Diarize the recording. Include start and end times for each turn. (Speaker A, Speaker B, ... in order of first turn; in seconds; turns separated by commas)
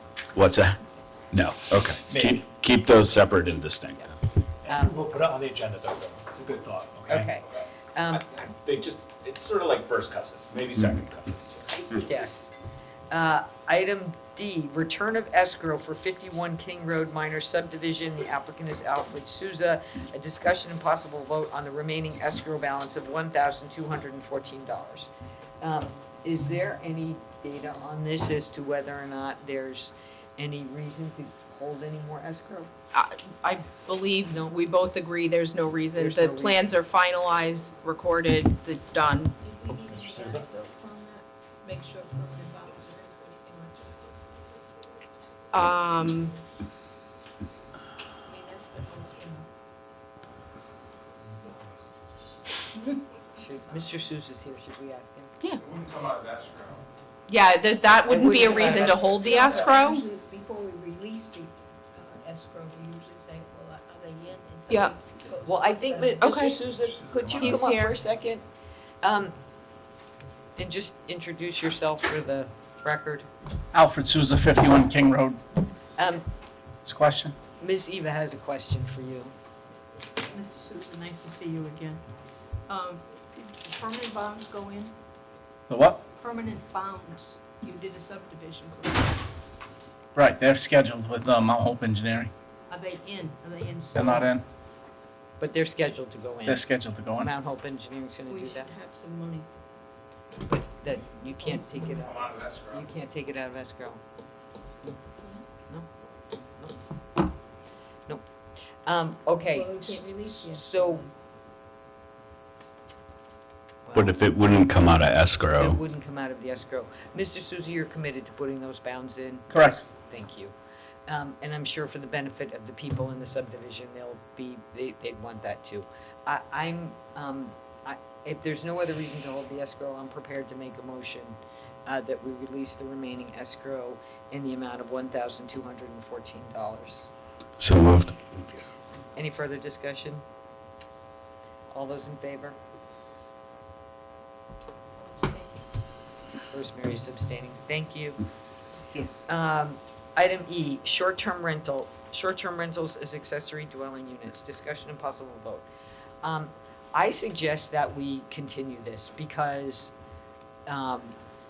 Speaker A: 0.3-0.8, Speaker A: 1.3-4.2, Speaker B: 2.1-2.5, Speaker B: 4.6-7.4, Speaker C: 4.7-5.0, Speaker C: 7.1-8.2, Speaker B: 8.1-11.8, Speaker C: 12.1-12.5, Speaker C: 13.1-25.1, Speaker C: 25.6-32.7, Speaker D: 32.9-39.3, Speaker C: 34.3-34.6, Speaker C: 36.0-36.7, Speaker E: 39.3-44.0, Speaker B: 39.7-40.5, Speaker D: 45.5-46.4, Speaker E: 48.2-49.5, Speaker B: 51.2-51.9, Speaker E: 52.8-54.0, Speaker C: 53.4-55.4, Speaker F: 55.6-56.8, Speaker D: 57.3-60.0, Speaker C: 58.1-59.7, Speaker E: 58.3-66.3, Speaker D: 64.7-65.0, Speaker C: 65.4-68.5, Speaker D: 66.2-66.5, Speaker B: 66.5-67.7, Speaker D: 67.4-67.9, Speaker C: 69.0-69.3, Speaker C: 70.6-73.3, Speaker G: 73.7-75.4, Speaker C: 76.0-76.3, Speaker G: 76.8-77.4, Speaker C: 77.6-79.3, Speaker E: 80.3-82.0, Speaker E: 82.7-85.0, Speaker G: 85.7-86.0, Speaker E: 86.1-89.2, Speaker G: 90.2-92.3, Speaker E: 92.7-94.4, Speaker G: 94.0-94.4, Speaker C: 95.4-96.6, Speaker G: 96.5-97.3, Speaker C: 97.2-98.7, Speaker E: 98.3-99.5, Speaker C: 100.4-104.0, Speaker E: 101.2-102.1, Speaker F: 102.1-102.8, Speaker E: 105.2-105.5, Speaker C: 108.8-111.1, Speaker E: 109.5-111.0, Speaker C: 113.8-114.2, Speaker A: 113.9-115.8, Speaker C: 115.6-120.5, Speaker G: 119.5-119.8, Speaker C: 121.1-137.1, Speaker A: 137.6-138.3, Speaker C: 139.2-140.2, Speaker C: 141.7-142.6, Speaker E: 145.0-145.7, Speaker C: 146.5-148.2, Speaker C: 149.2-155.7, Speaker C: 156.2-159.9, Speaker C: 160.7-161.1